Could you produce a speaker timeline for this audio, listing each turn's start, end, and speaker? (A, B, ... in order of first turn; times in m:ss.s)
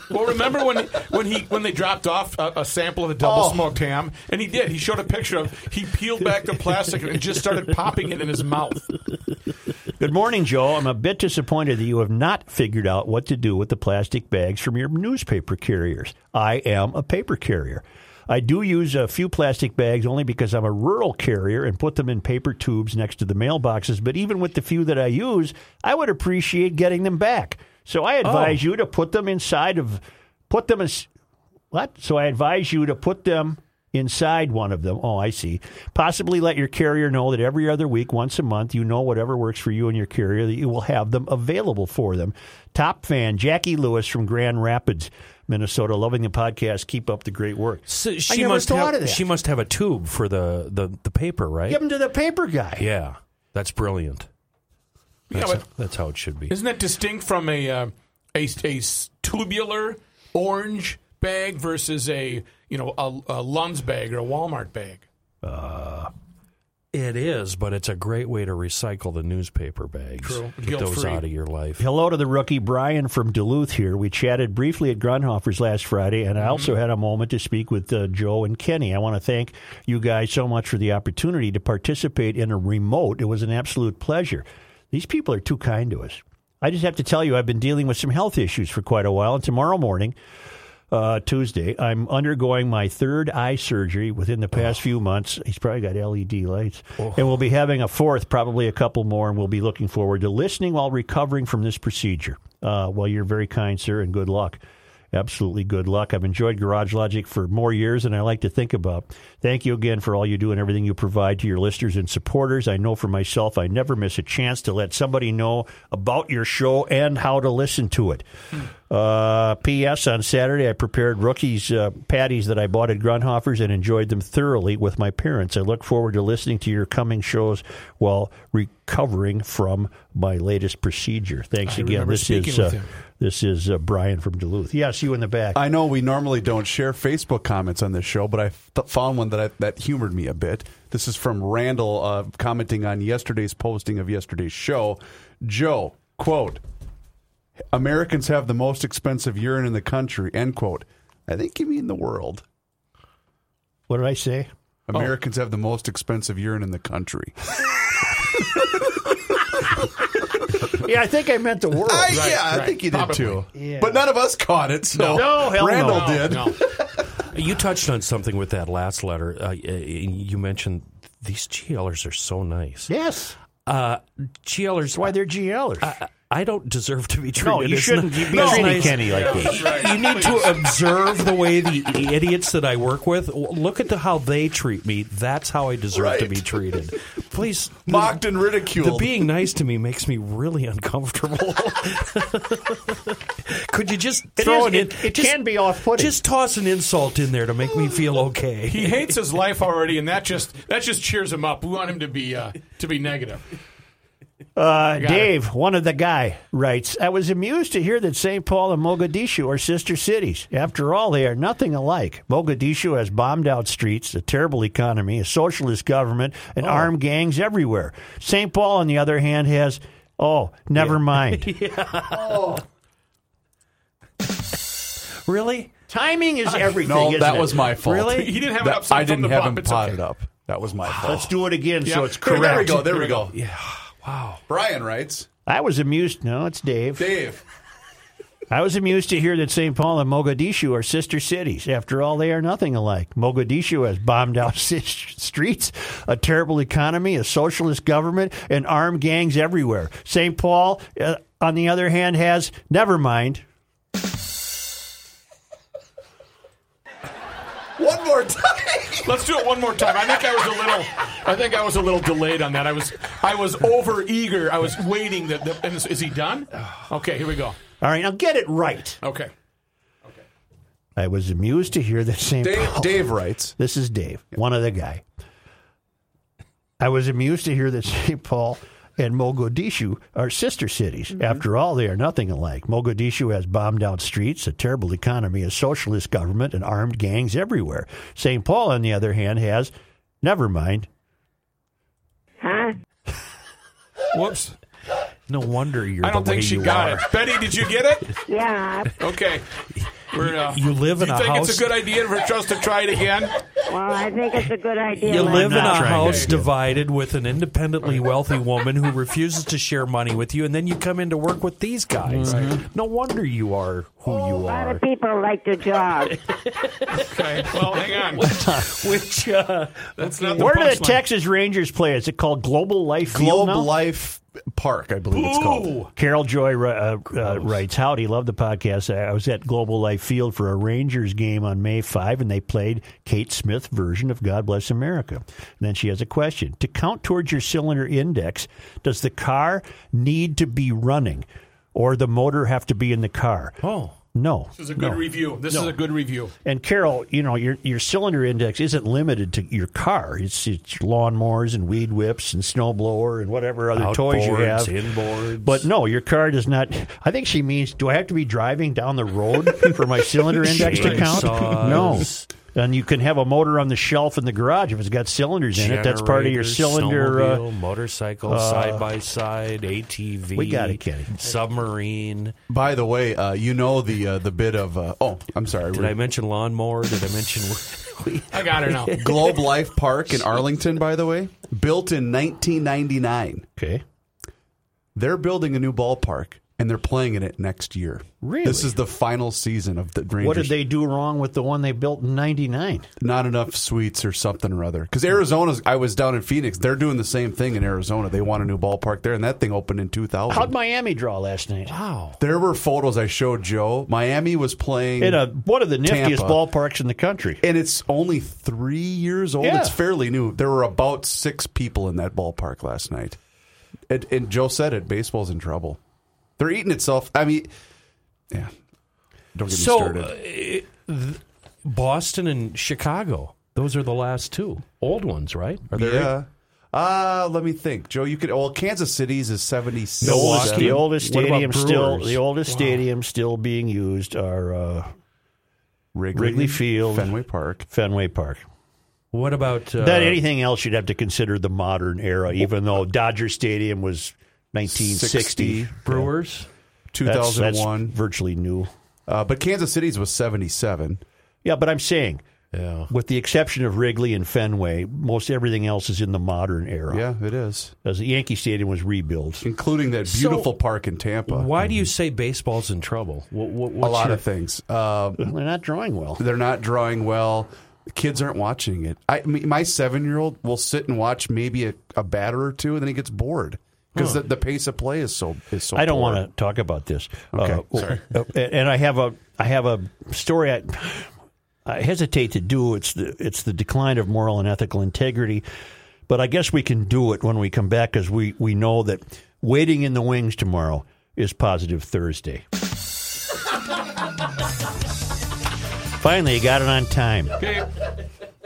0:00.1-0:08.9 A
0:03.2-0:03.6 B
0:10.0-0:31.1 C
0:28.3-0:28.6 D
0:31.7-0:49.2 C
0:47.9-0:51.8 D
0:51.7-0:52.8 C
0:52.8-0:54.3 D
0:55.3-0:55.6 A
0:55.3-0:56.5 D
0:56.5-1:05.0 A
1:05.4-1:06.1 C
1:06.9-1:11.8 D
1:10.2-1:11.2 A
1:11.8-1:30.2 C
1:16.4-1:16.7 A
1:30.9-1:44.6 C
1:45.1-1:58.2 C
1:58.9-2:15.6 C
2:11.6-2:12.9 A
2:15.5-2:26.6 B
2:27.7-2:32.4 B
2:33.9-2:34.5 C
2:34.9-2:37.4 B
2:40.7-2:42.3 C
2:41.8-2:46.9 B
2:42.1-2:43.4 A
2:43.5-2:44.0 C
2:45.0-2:45.3 A
2:45.1-2:46.2 C
2:45.8-2:46.6 A
2:47.3-2:52.9 D
2:52.9-2:53.4 C
2:53.6-2:55.1 D
2:54.9-2:55.9 C
2:55.8-3:15.4 D
2:57.4-2:59.7 C
2:58.3-2:58.9 B
2:58.9-3:00.5 A
3:05.9-3:06.4 B
3:07.8-3:09.2 B
3:14.4-3:16.2 C
3:15.9-3:19.1 D
3:18.7-3:23.4 A
3:24.6-3:41.5 C
3:25.0-3:25.3 A
3:36.6-3:36.9 D
3:40.8-3:42.6 D
3:42.2-3:42.6 B
3:45.2-3:45.7 D
3:45.9-3:47.8 C
3:46.8-3:51.4 B
3:47.8-3:48.3 D
3:48.1-3:50.0 A
3:50.8-3:51.3 D
3:51.0-3:53.0 C
3:51.8-3:53.2 A
3:52.2-3:53.4 B
3:53.3-3:54.4 D
3:54.5-3:55.3 B
3:55.4-3:57.2 C
3:57.0-3:57.4 B
3:58.5-4:13.4 C
4:17.8-4:19.1 B
4:19.0-4:27.6 A
4:27.8-4:29.0 C
4:29.0-4:29.3 A
4:31.0-4:35.0 C
4:32.4-4:33.5 B
4:36.8-4:50.9 C
4:52.4-4:52.8 E
4:54.1-4:54.6 A
4:55.3-4:57.1 D
4:56.0-4:58.1 A
4:58.3-4:58.9 E
4:59.0-4:59.4 A
5:00.1-5:03.4 A
5:00.1-5:01.7 D
5:03.7-5:05.9 E
5:05.0-5:14.8 D
5:05.1-5:06.5 C
5:05.9-5:06.3 A
5:12.2-5:12.6 A
5:12.2-5:12.5 C
5:14.1-5:16.2 E
5:16.3-5:20.6 D
5:17.0-5:18.3 A
5:18.2-5:18.8 C
5:20.0-5:21.0 A
5:20.4-5:23.7 C
5:23.1-5:25.8 B
5:25.1-5:25.9 D
5:26.0-5:43.6 C
5:43.6-5:44.0 D
5:44.1-5:45.8 C
5:44.6-5:46.3 A
5:46.4-5:54.7 C
5:53.8-5:55.7 D
5:55.4-6:07.4 C
6:00.5-6:02.3 D
6:00.7-6:01.2 A
6:05.5-6:12.3 D
6:08.2-6:08.8 C
6:10.4-6:11.2 C
6:12.5-6:15.9 B
6:15.7-6:20.2 D
6:18.3-6:19.0 A
6:19.0-6:23.5 B
6:23.6-6:23.8 C
6:24.9-6:30.5 B
6:28.2-6:28.8 C
6:30.2-6:32.9 C
6:33.0-6:40.5 B
6:40.3-6:41.7 C
6:41.7-6:42.2 D
6:42.2-6:45.2 B
6:45.0-6:47.4 C
6:45.8-6:46.4 B
6:47.4-6:53.2 B
6:49.4-6:49.8 C
6:53.9-6:55.8 B
6:56.4-6:57.5 B
6:59.3-7:00.1 B
6:59.5-7:06.1 D
7:05.7-7:11.6 B
7:10.0-7:12.2 D
7:10.0-7:14.9 C
7:12.5-7:12.8 A
7:15.9-7:17.7 B
7:16.1-7:18.4 C
7:19.1-7:20.2 D
7:19.8-7:26.1 C
7:24.7-7:25.7 B
7:25.8-7:26.5 D
7:26.9-7:27.9 B
7:27.0-7:28.7 C
7:29.1-7:31.0 B
7:31.4-7:32.2 C
7:32.5-7:32.9 D
7:32.9-7:37.0 C
7:36.9-7:37.7 B
7:37.8-7:39.4 C
7:39.4-7:41.5 B
7:40.0-7:40.5 D
7:41.3-7:44.2 D
7:43.8-7:45.2 B
7:45.2-7:46.2 C
7:46.2-7:56.2 B
7:54.0-7:54.2 D
7:55.7-8:01.1 C
7:57.3-7:58.0 B
8:01.6-8:05.4 C
8:06.1-8:12.4 C
8:16.0-8:17.4 C
8:17.4-8:17.7 A